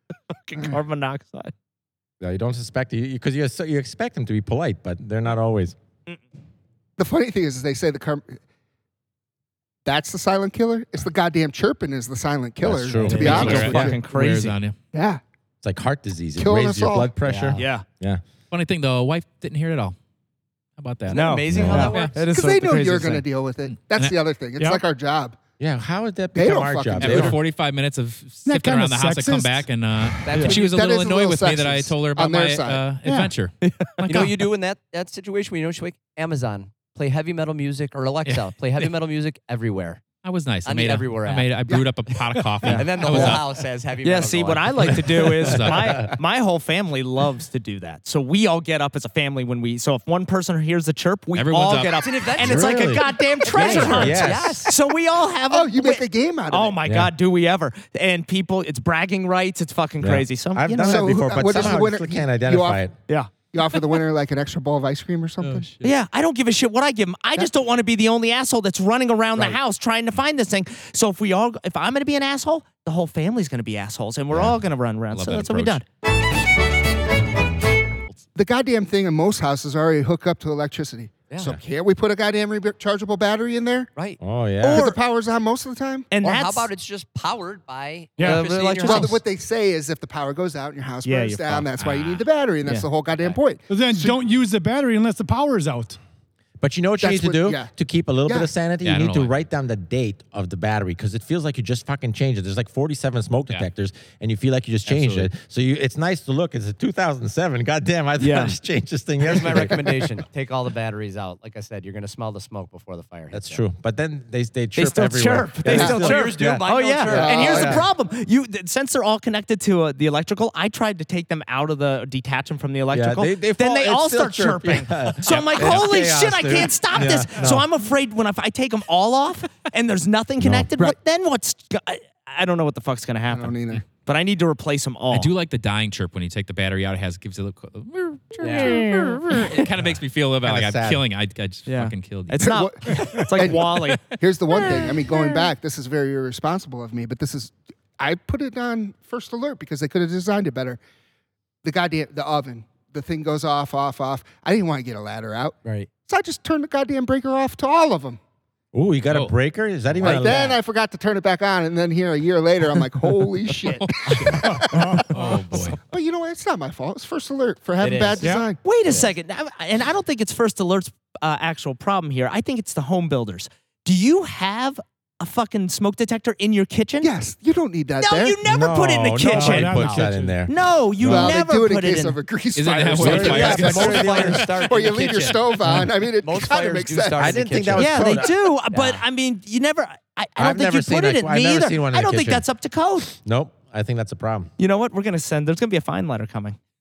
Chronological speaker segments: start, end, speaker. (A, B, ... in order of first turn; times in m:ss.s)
0:00.3-0:01.5 A
0:02.2-0:05.8 B
0:07.0-0:08.4 C
0:09.8-0:14.0 C
0:12.6-0:14.0 B
0:13.0-0:14.8 D
0:13.0-0:14.5 A
0:14.9-0:15.2 C
0:15.6-0:18.2 B
0:16.4-0:17.1 C
0:17.3-0:17.6 E
0:17.5-0:17.8 A
0:18.5-0:20.0 D
0:20.8-0:22.1 D
0:21.1-0:22.2 E
0:21.1-0:23.2 A
0:21.5-0:21.9 B
0:22.3-0:25.4 C
0:23.7-0:24.2 D
0:25.6-0:27.4 B
0:26.3-0:27.3 C
0:27.0-0:33.5 D
0:28.4-0:29.7 F
0:30.2-0:30.7 E
0:30.4-0:32.9 C
0:33.6-0:34.3 A
0:34.0-0:40.0 E
0:38.2-0:38.9 D
0:40.2-0:43.5 D
0:40.6-0:44.9 E
0:42.6-0:43.4 A
0:44.0-1:01.8 A
0:45.4-0:46.0 D
0:51.3-0:52.0 D
0:51.8-0:54.7 E
0:52.4-0:54.6 B
0:55.5-0:56.8 C
0:56.8-0:57.1 B
1:00.0-1:03.0 B
1:00.8-1:02.8 C
1:03.5-1:05.7 C
1:05.4-1:05.9 D
1:05.8-1:15.8 A
1:14.3-1:14.6 B
1:15.1-1:15.8 D
1:18.3-1:23.9 C
1:21.3-1:21.6 E
1:24.2-1:24.9 B
1:24.6-1:25.0 A
1:24.7-1:26.1 C
1:26.1-1:26.7 A
1:26.2-1:29.2 E
1:28.2-1:28.5 F
1:28.2-1:29.2 A
1:28.8-1:34.2 C
1:31.0-1:31.7 A
1:31.8-1:32.2 D
1:33.1-1:33.4 E
1:33.7-1:36.0 F
1:36.6-1:50.0 B
1:37.0-1:37.7 C
1:38.2-1:38.5 C
1:38.8-1:39.4 D
1:44.9-1:45.3 D
1:48.2-1:48.6 A
1:49.2-1:53.6 E
1:53.3-1:57.8 B
1:54.8-2:15.3 A
1:55.7-1:57.9 E
1:55.8-1:56.0 C
2:02.9-2:07.6 B
2:05.2-2:05.9 D
2:10.4-2:10.7 B
2:13.3-2:13.8 C
2:15.1-2:23.0 D
2:18.4-2:19.5 A
2:18.4-2:18.7 E
2:20.4-2:21.0 B
2:21.6-2:24.0 A
2:22.4-2:30.8 C
2:31.6-2:38.2 C
2:38.7-2:40.5 B
2:40.0-2:48.6 C
2:43.6-2:45.8 D
2:44.3-2:45.4 F
2:47.8-2:49.1 E
2:48.6-2:57.1 A
2:57.0-2:58.4 C
2:58.0-3:02.2 A
2:58.4-3:01.3 B
2:59.3-3:00.4 F
3:01.0-3:07.2 C
3:02.5-3:04.6 D
3:02.9-3:04.5 B
3:03.1-3:08.2 E
3:07.2-3:08.4 B
3:07.8-3:13.1 A
3:08.7-3:09.0 E
3:10.4-3:12.4 B
3:13.1-3:14.5 B
3:14.6-3:16.6 A